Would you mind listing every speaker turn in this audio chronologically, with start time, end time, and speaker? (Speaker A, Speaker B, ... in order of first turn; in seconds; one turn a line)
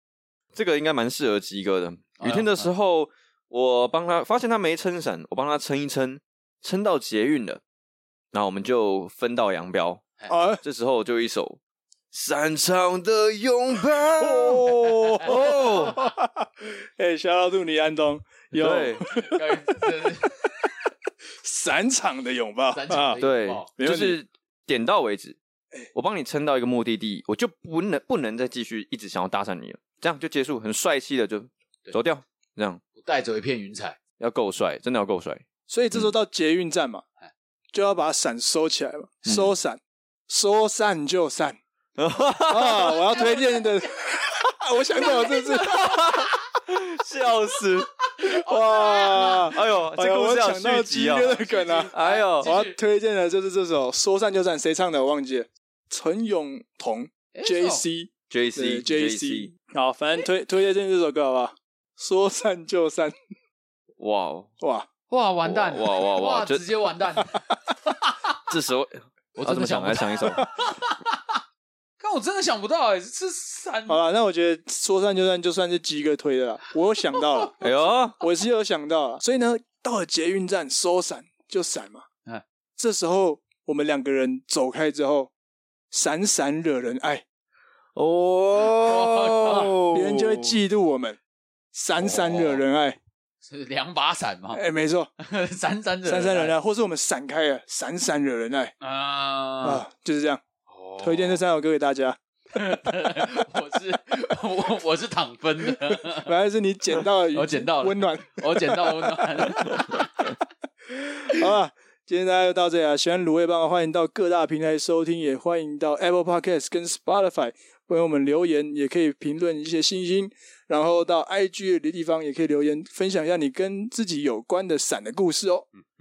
Speaker A: 0.5-7.6
Speaker B: 2.2-2.7
Speaker A: 8.3-10.0
Speaker C: 10.3-10.6
Speaker A: 10.6-11.6
Speaker A: 12.1-16.0
Speaker C: 14.2-20.7
Speaker B: 15.1-15.7
Speaker A: 18.5-19.0
Speaker B: 19.0-20.4
Speaker C: 21.4-23.2
Speaker B: 22.7-23.7
Speaker A: 23.2-25.4
Speaker C: 23.8-24.2
Speaker A: 25.9-32.8
Speaker B: 33.0-34.0
Speaker A: 34.2-35.4
Speaker C: 35.7-37.0
Speaker C: 37.7-41.6
Speaker A: 39.3-39.5
Speaker A: 42.0-43.3
Speaker C: 42.5-46.1
Speaker B: 43.1-43.9
Speaker B: 44.9-46.4
Speaker A: 46.0-47.9
Speaker B: 48.1-49.5
Speaker C: 48.2-51.9
Speaker A: 49.5-51.4
Speaker B: 51.2-52.8
Speaker A: 51.9-52.5
Speaker C: 52.4-63.1
Speaker B: 57.3-57.8
Speaker A: 58.3-59.5
Speaker A: 64.0-64.5
Speaker C: 64.6-64.9
Speaker B: 65.1-68.3
Speaker A: 65.4-66.6
Speaker A: 68.5-70.4
Speaker B: 69.4-71.4
Speaker B: 72.0-74.0
Speaker C: 73.9-82.0
Speaker B: 77.1-77.8
Speaker A: 77.6-78.2
Speaker C: 82.8-85.3
Speaker C: 85.9-87.2
Speaker A: 87.9-90.6
Speaker B: 88.6-89.7
Speaker C: 89.7-91.2
Speaker C: 91.7-93.0
Speaker B: 92.0-92.6
Speaker B: 93.4-94.6
Speaker C: 94.5-95.1
Speaker B: 95.2-96.5
Speaker C: 96.0-98.7
Speaker B: 98.8-99.8
Speaker C: 99.6-100.4
Speaker B: 100.7-101.4
Speaker C: 101.0-102.2
Speaker B: 102.5-106.3
Speaker C: 105.7-109.8
Speaker B: 107.3-110.3
Speaker C: 111.0-125.7